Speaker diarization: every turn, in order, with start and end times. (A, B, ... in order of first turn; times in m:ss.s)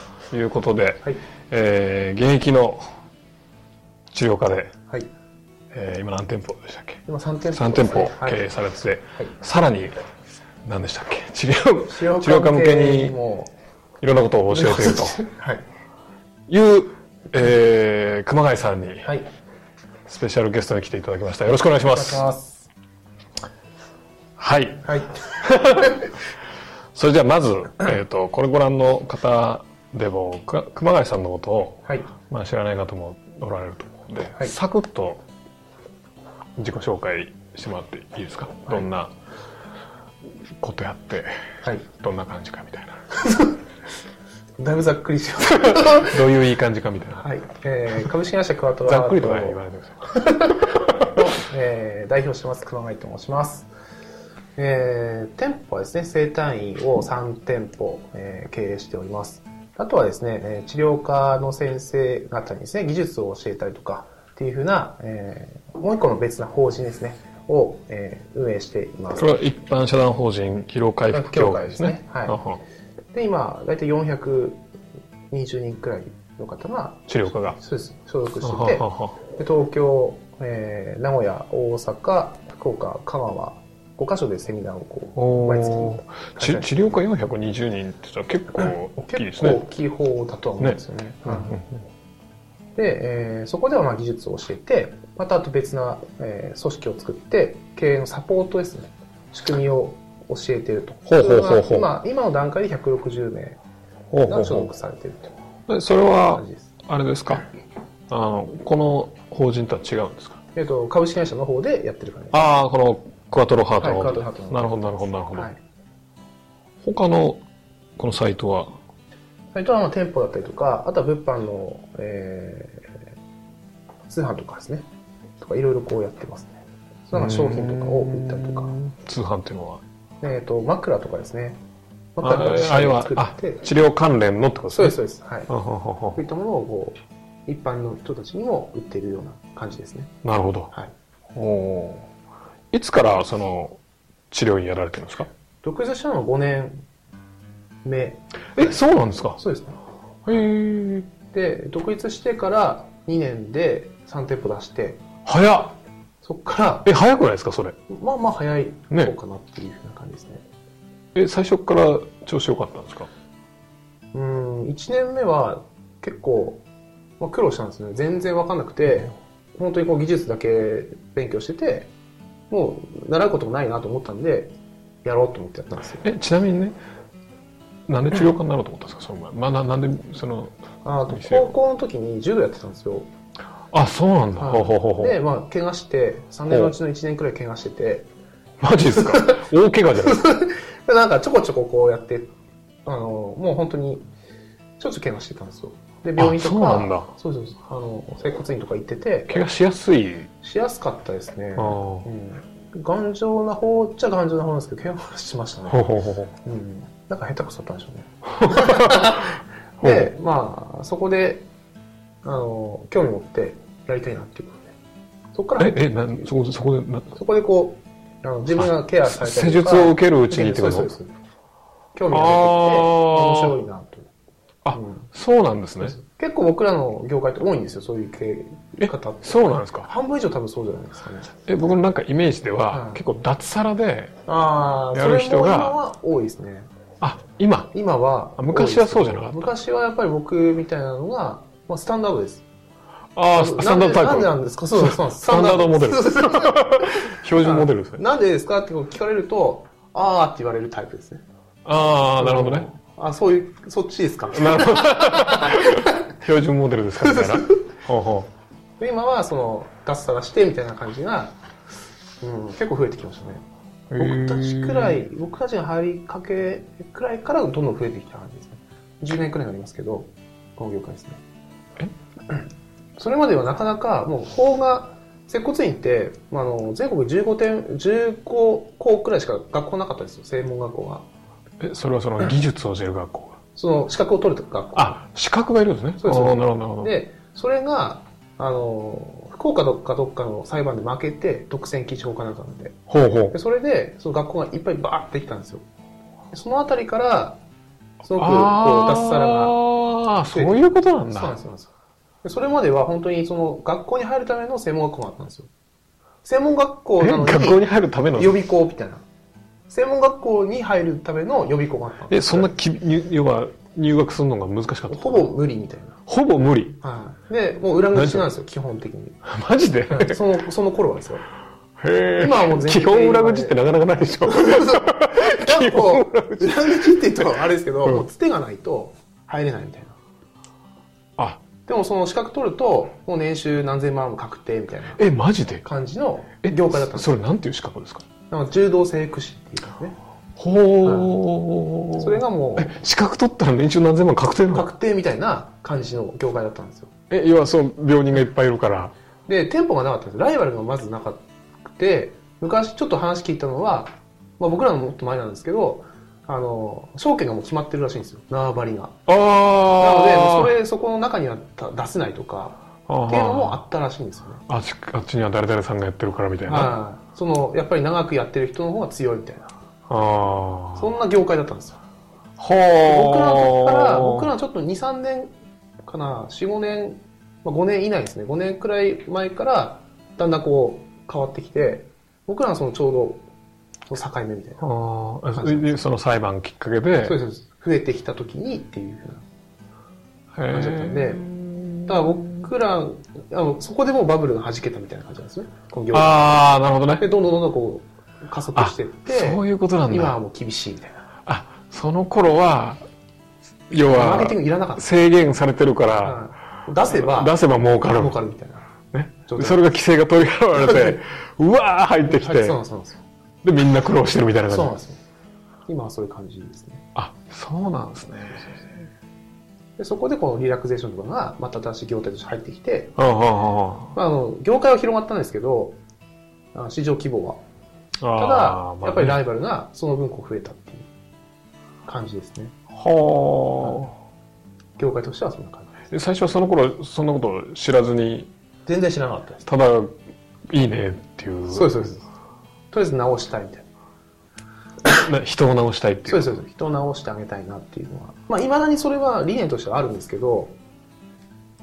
0:00.3-0:02.9 A
0:04.1-0:04.7 A
0:05.7-0:07.0 A
0:07.1-0:08.5 B
0:07.5-0:10.0 A
0:10.6-0:13.2 A
0:11.9-0:13.5 B
0:14.0-0:15.2 A
0:14.5-0:15.6 B
0:16.5-0:19.1 A
0:20.1-0:22.2 A
0:21.9-0:22.7 B
0:24.4-0:26.0 A
0:24.8-0:26.0 B
0:27.0-0:35.2 A
0:36.6-0:39.1 A
0:40.6-0:41.3 A
0:41.9-0:43.0 A
0:43.2-0:43.6 B
0:44.6-0:46.2 B
0:45.5-0:47.3 A
0:47.2-0:53.7 B
0:48.8-0:51.2 A
0:54.6-1:09.3 B
1:09.2-1:12.6 A
1:11.1-1:12.4 B
1:13.1-1:14.6 B
1:15.3-1:26.8 B
1:17.1-1:17.6 A
1:18.4-1:19.2 A
1:25.2-1:29.6 A
1:28.6-1:31.6 B
1:30.6-1:31.8 A
1:32.8-1:43.6 B
1:41.1-1:41.9 A
1:44.1-1:44.7 A
1:44.3-1:45.3 B
1:45.7-1:47.5 A
1:46.3-1:46.7 B
1:48.1-1:50.4 A
1:50.6-1:52.5 B
1:52.3-1:55.5 A
1:53.8-1:55.6 B
1:56.8-1:57.4 A
1:58.0-1:58.7 A
1:59.5-2:03.0 B
2:04.1-2:04.9 B
2:05.4-2:08.8 B
2:07.1-2:09.8 A
2:10.2-2:11.6 B
2:12.2-2:13.6 B
2:12.2-2:15.0 A
2:14.7-2:15.5 B
2:15.5-2:16.2 A
2:16.2-2:20.1 B
2:20.2-2:20.7 A
2:21.3-2:22.1 A
2:22.7-2:23.8 A
2:24.3-2:25.3 A
2:25.6-2:26.8 B
2:27.8-2:28.8 B
2:28.6-2:29.4 A
2:29.4-2:29.8 B
2:30.2-2:31.1 A
2:31.3-2:35.0 B
2:35.2-2:35.8 A
2:36.2-2:36.9 B
2:36.8-2:37.8 A
2:37.9-2:40.4 B
2:41.2-2:43.1 A
2:44.1-2:46.6 B
2:47.2-2:51.9 B
2:52.5-2:56.1 B
2:56.0-2:56.8 A
2:57.9-3:00.6 A
3:00.8-3:03.1 B
3:01.1-3:01.5 A
3:03.7-3:05.2 A
3:04.4-3:08.1 B
3:08.6-3:10.3 A
3:08.9-3:09.4 B
3:10.0-3:12.3 B
3:12.8-3:14.1 B
3:14.8-3:19.4 B
3:16.2-3:17.1 A
3:19.3-3:20.3 A
3:20.4-3:25.9 B
3:21.6-3:22.1 A
3:25.7-3:26.3 A
3:26.4-3:31.5 B
3:28.4-3:30.1 A
3:32.2-3:34.7 B
3:35.3-3:36.3 B
3:35.6-3:37.2 A
3:37.1-3:41.1 B
3:38.6-3:40.9 A
3:41.9-3:44.1 B
3:42.1-3:43.6 A
3:44.6-3:46.0 A
3:44.7-3:45.1 B
3:45.8-3:51.3 B
3:48.8-3:49.9 A
3:51.5-3:54.1 A
3:52.7-3:53.0 B
3:54.3-3:56.7 B
3:54.9-3:55.8 A
3:57.0-3:57.7 A
3:57.7-4:02.4 B
3:58.4-3:59.5 A
4:03.2-4:08.0 A
4:03.3-4:11.2 B
4:11.6-4:12.7 A
4:12.2-4:16.0 B
4:14.3-4:18.3 A
4:17.0-4:17.6 B
4:18.8-4:21.4 B
4:22.2-4:23.4 B
4:23.9-4:25.0 A
4:24.0-4:31.2 B
4:33.0-4:41.1 B
4:41.6-4:43.4 A
4:43.6-4:45.0 B
4:44.8-4:46.9 A
4:46.0-4:52.8 B
4:52.9-4:53.4 A
4:53.3-4:55.6 B
4:56.3-4:57.4 B
4:58.0-4:59.6 B
4:58.1-5:01.4 A
5:00.3-5:01.7 B
5:02.2-5:05.5 B
5:06.2-5:07.6 B
5:07.0-5:08.4 A
5:08.2-5:09.0 B
5:09.7-5:12.6 B
5:12.1-5:15.3 A
5:14.9-5:16.0 B
5:16.1-5:16.8 A
5:16.8-5:19.2 B
5:18.0-5:18.3 A
5:19.2-5:20.2 A
5:19.9-5:21.2 B
5:21.8-5:27.3 A
5:22.2-5:23.6 B
5:24.2-5:30.0 B
5:31.2-5:31.4 A
5:31.7-5:35.0 B
5:35.0-5:35.6 A
5:35.6-5:37.2 B
5:36.4-5:38.0 A
5:38.3-5:40.0 B
5:40.4-5:44.7 A
5:40.8-5:41.2 B
5:42.0-5:42.8 B
5:44.5-5:46.9 B
5:47.1-5:48.9 A
5:49.3-5:51.2 B
5:51.8-5:59.0 B
5:59.1-6:00.5 A
5:59.8-6:04.4 B
6:02.9-6:03.6 A
6:04.5-6:06.7 A
6:06.5-6:09.5 B
6:09.9-6:10.9 A
6:10.8-6:11.8 B
6:12.4-6:14.3 A
6:12.8-6:15.3 B
6:15.8-6:23.2 B
6:23.9-6:24.6 B
6:24.6-6:27.2 A
6:25.3-6:25.8 B
6:27.0-6:29.2 B
6:30.3-6:32.5 A
6:30.5-6:31.3 B
6:31.9-6:41.1 B
6:35.9-6:37.1 A
6:38.6-6:40.2 A
6:41.3-6:42.8 A
6:43.7-6:46.2 A
6:43.7-6:44.9 B
6:46.0-6:47.4 B
6:46.8-6:48.2 A
6:47.9-6:48.7 B
6:48.9-6:52.6 A
6:49.3-6:49.6 B
6:50.5-6:51.0 B
6:52.1-6:53.0 B
6:53.4-6:54.8 A
6:54.5-6:55.0 B
6:55.7-6:56.9 B
6:57.0-6:58.9 A
6:59.8-7:02.9 B
7:03.0-7:03.9 A
7:04.0-7:05.8 B
7:06.5-7:07.4 B
7:08.0-7:09.2 A
7:08.2-7:10.9 B
7:11.9-7:12.6 B
7:12.7-7:14.0 A
7:14.8-7:15.8 B
7:15.9-7:18.3 A
7:18.7-7:19.5 B
7:19.5-7:20.0 A
7:20.5-7:21.8 A
7:21.5-7:22.1 B
7:22.7-7:23.7 B
7:24.8-7:26.3 A
7:26.1-7:30.6 B